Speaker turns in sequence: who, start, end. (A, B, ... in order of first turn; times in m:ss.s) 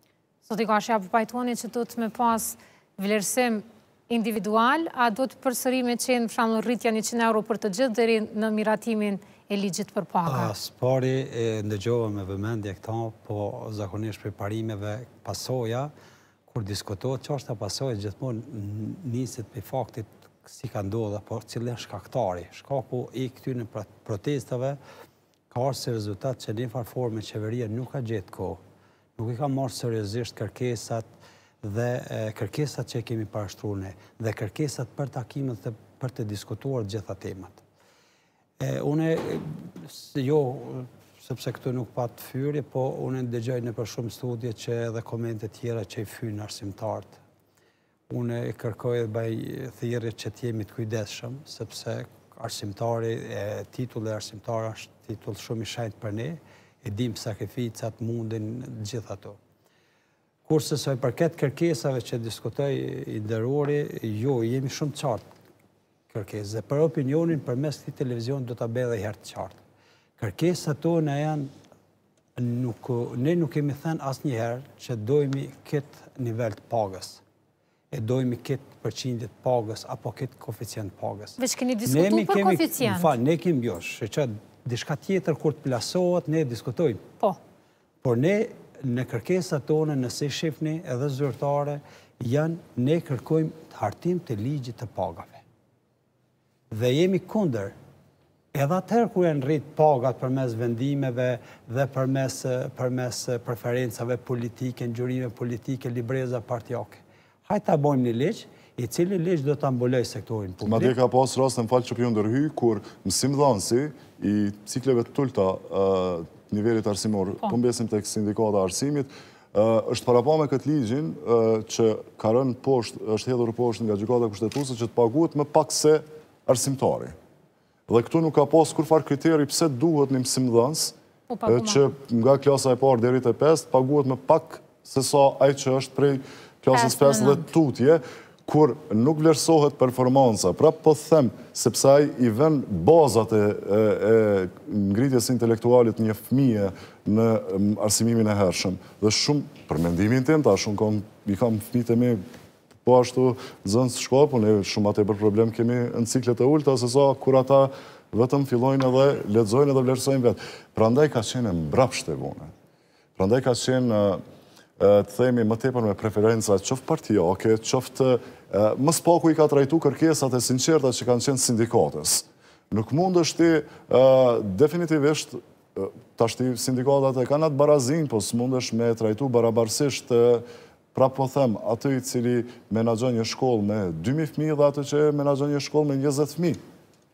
0:00.5-0:10.5 A
0:10.2-0:15.9 B
0:16.5-0:24.8 B
0:25.5-0:28.6 B
0:29.2-0:37.6 B
0:38.6-0:47.2 B
0:48.1-0:59.4 B
1:00.5-1:05.2 B
1:06.1-1:09.6 B
1:10.2-1:11.5 B
1:12.4-1:17.2 B
1:17.9-1:27.1 B
1:21.4-1:23.1 A
1:28.0-1:35.4 B
1:36.7-1:37.7 B
1:38.5-1:51.0 B
1:50.6-2:07.1 C
2:07.9-2:10.9 C
2:11.3-2:11.8 A
2:11.5-2:32.2 C
2:16.7-2:17.4 A
2:32.8-2:42.5 C
2:43.2-2:44.2 C
2:44.8-3:06.6 C